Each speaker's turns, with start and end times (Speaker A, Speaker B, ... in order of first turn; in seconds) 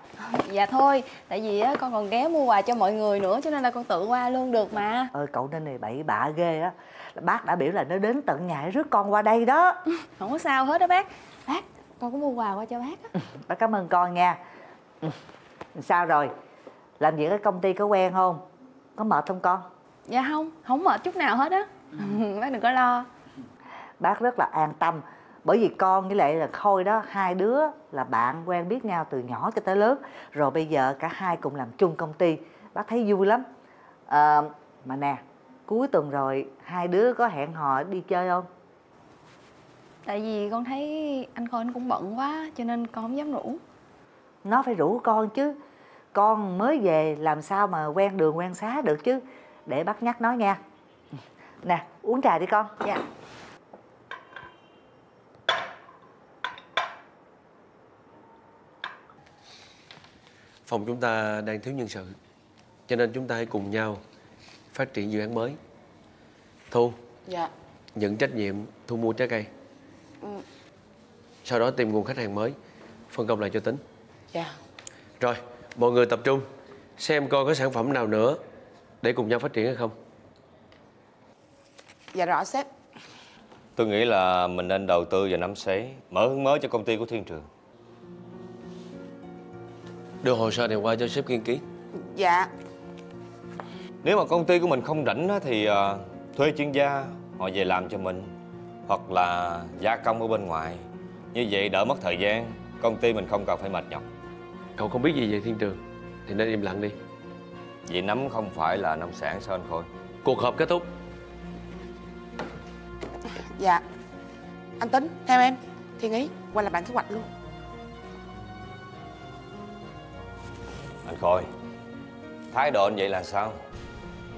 Speaker A: 0.2-5.1, 10.2-13.1, 20.1-23.1, 40.0-43.6
Speaker B: 5.1-9.8, 13.3-14.4, 15.8-16.3, 17.0-18.4, 19.0-19.7, 24.0-33.5, 34.1-38.5, 44.4-45.6, 46.1-50.6, 51.6-53.0
Speaker C: 60.6-62.1, 62.9-64.0, 64.7-65.6, 66.7-67.0, 67.9-69.5, 71.4-72.6, 73.1-73.8, 75.2-78.4, 79.0-80.0, 90.2-91.6, 104.8-107.0, 110.2-110.9
Speaker D: 82.1-82.7, 92.0-92.5, 113.5-113.8, 114.8-117.3
Speaker E: 83.8-87.5, 94.0-98.3, 98.9-104.0, 107.9-109.9, 121.0-121.5, 122.5-123.6